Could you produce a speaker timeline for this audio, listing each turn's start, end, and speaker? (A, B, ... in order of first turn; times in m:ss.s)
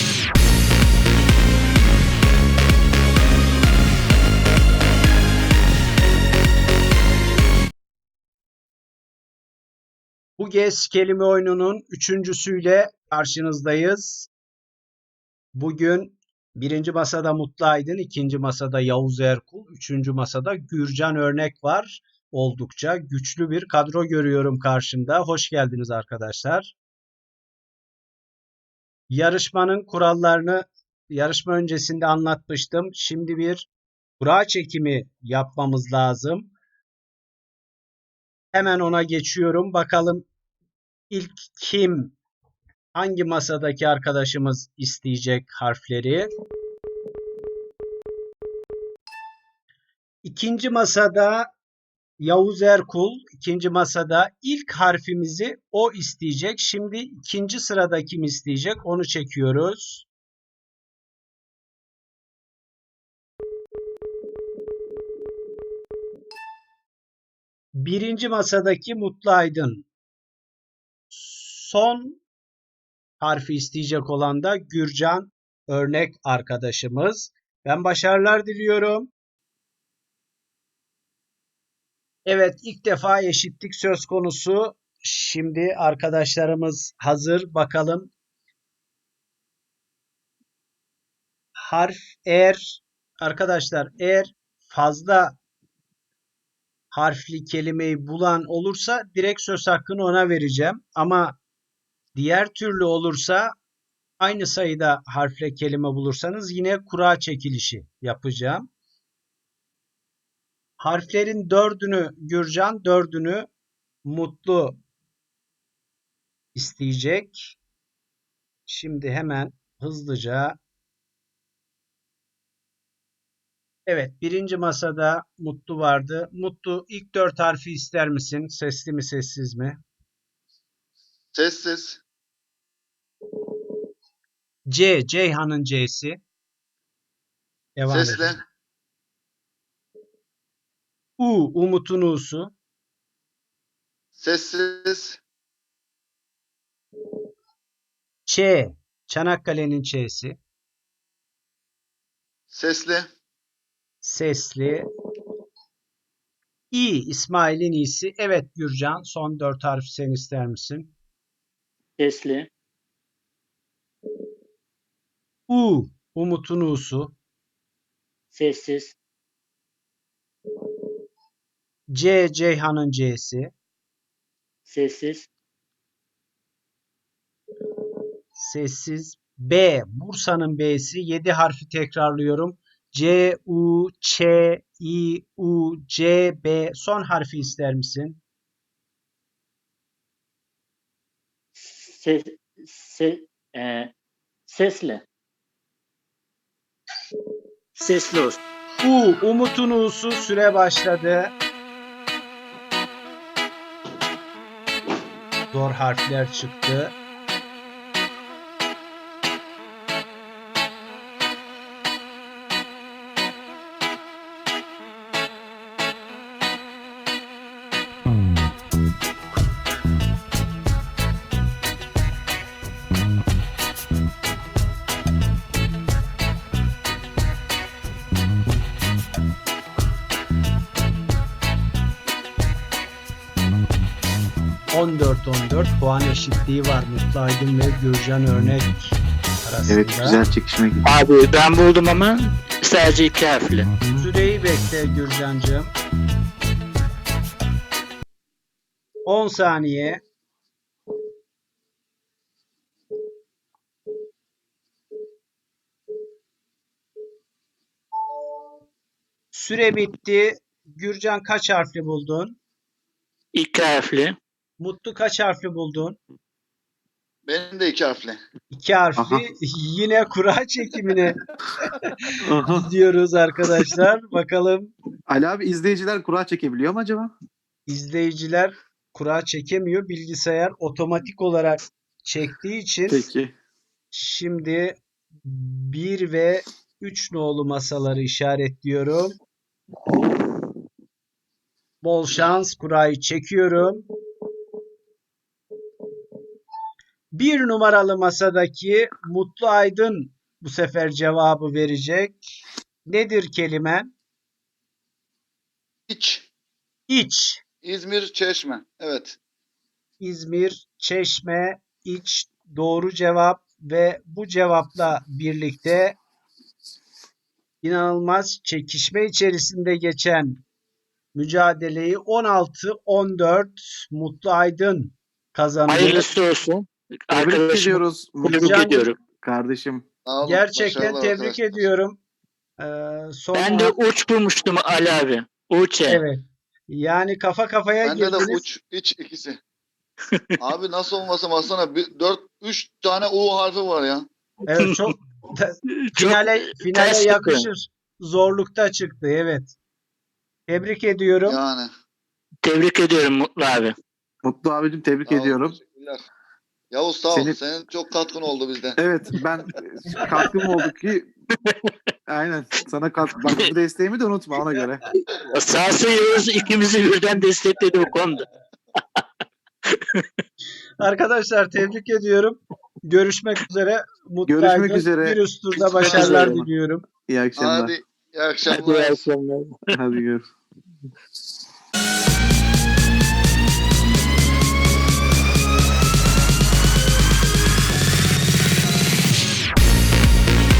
0:10.4-0:14.3 A
0:15.5-0:26.7 A
0:29.1-0:33.7 A
0:34.2-0:36.5 A
0:38.5-0:40.2 A
0:41.1-0:42.2 A
0:42.9-0:46.3 A
0:50.2-0:51.5 A
0:52.2-1:00.1 A
1:07.8-1:09.8 A
1:11.1-1:12.2 A
1:13.2-1:19.1 A
1:22.2-1:28.1 A
1:31.6-1:35.4 A
1:36.9-1:41.4 A
1:42.1-1:43.5 A
1:44.2-1:48.7 A
1:50.8-1:53.5 A
1:54.0-1:54.8 A
1:56.5-1:57.6 A
1:58.7-2:00.6 A
2:03.9-2:09.8 A
2:11.3-2:12.0 B
2:14.7-2:16.2 A
2:17.8-2:18.3 A
2:17.9-2:18.4 B
2:21.2-2:22.5 A
2:24.2-2:25.2 B
2:28.2-2:30.4 A
2:32.5-2:33.1 B
2:34.0-2:34.8 A
2:36.7-2:40.9 A
2:42.0-2:42.5 C
2:45.5-2:47.1 A
2:48.3-2:49.0 C
2:51.9-2:53.5 A
2:54.6-2:55.3 C
2:58.4-3:08.2 A
3:11.6-3:13.9 C
3:14.5-3:15.0 C
3:17.8-3:18.4 C
3:18.8-3:21.3 A
3:25.5-3:27.0 A
3:54.7-4:00.2 A
3:59.7-4:00.8 D
4:00.8-4:03.7 C
4:04.0-4:05.7 A
4:09.0-4:10.0 A
4:19.3-4:22.4 A
4:23.3-4:24.2 C
4:24.6-4:26.0 A
4:27.2-4:28.2 B
4:28.5-4:31.2 A
4:29.0-4:29.2 D
4:32.2-4:32.7 D
4:32.5-4:34.7 A
4:35.1-4:37.1 D
4:37.7-4:43.1 A
4:42.9-4:43.3 D
4:43.9-4:49.1 A
4:51.8-4:53.8 A
4:57.1-5:02.2 A
5:02.8-5:03.9 A
5:05.9-5:06.3 B
5:06.9-5:07.4 A
5:07.6-5:09.2 B
5:10.0-5:16.0 A
5:17.6-5:20.4 A
5:21.1-5:26.0 A
5:25.7-5:29.0 C
5:27.1-5:28.6 D
5:28.4-5:28.9 A
5:29.2-5:29.8 D
5:30.0-5:31.6 B
5:30.2-5:32.0 A
5:32.6-5:33.8 A
5:33.3-5:36.0 C
5:35.8-5:38.4 A
5:37.8-5:39.4 B
5:40.4-5:44.0 B
5:44.5-5:49.5 A
5:44.5-5:44.9 C
5:45.9-5:47.5 C
5:50.5-5:51.4 A
5:51.2-5:51.7 B
5:52.4-5:53.7 C
5:54.2-5:55.6 D
5:55.0-5:56.0 B
5:56.7-5:58.8 B
5:57.1-5:57.4 D
5:58.8-6:01.1 D
6:02.1-6:04.8 D
6:05.2-6:08.2 C
6:10.8-6:16.8 A
6:14.2-6:15.2 D
6:15.6-6:16.4 C
6:15.9-6:16.5 D
6:17.0-6:17.7 D
6:17.4-6:19.0 B
6:18.5-6:19.6 C
6:19.7-6:20.3 D